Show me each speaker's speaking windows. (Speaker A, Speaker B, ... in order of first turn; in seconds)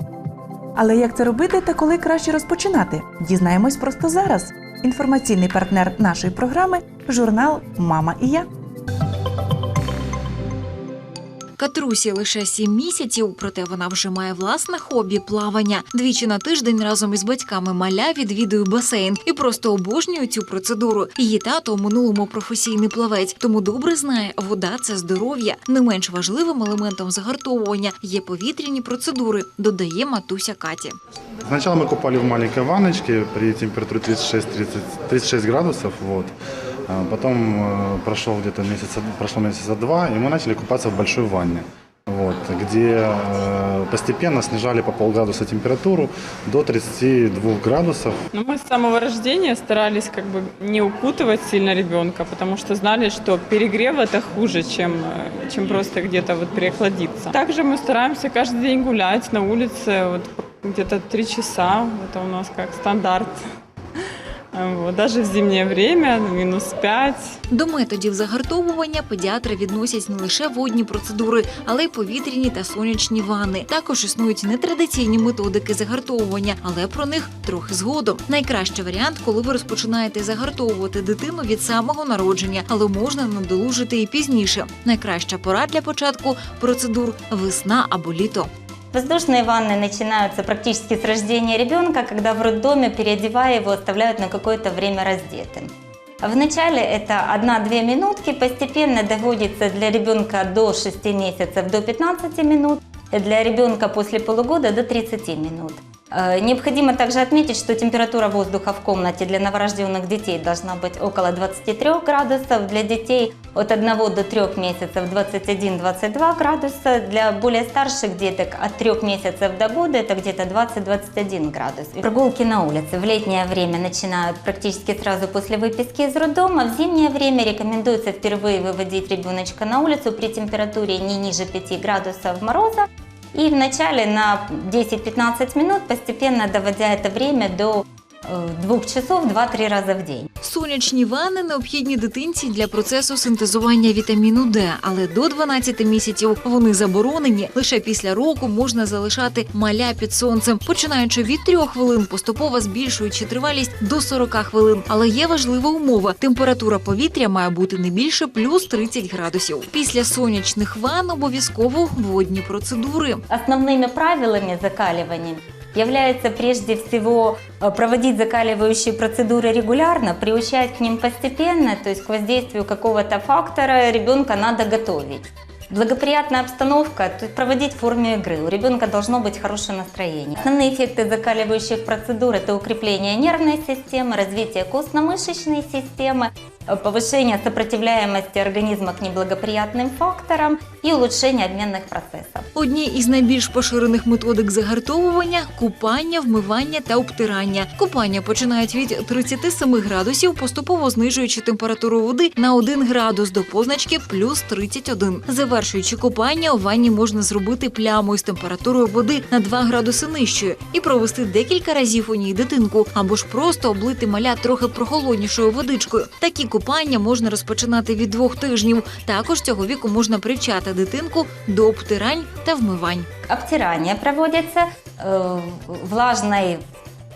Speaker A: 0.8-8.5
Speaker B: 11.6-31.0, 67.5-88.5, 140.4-163.2, 192.5-223.1
Speaker C: 31.4-36.3, 36.9-48.2
Speaker D: 48.3-63.4, 64.5-67.3
Speaker E: 88.9-95.7, 96.2-140.3, 163.3-192.4, 223.3-226.6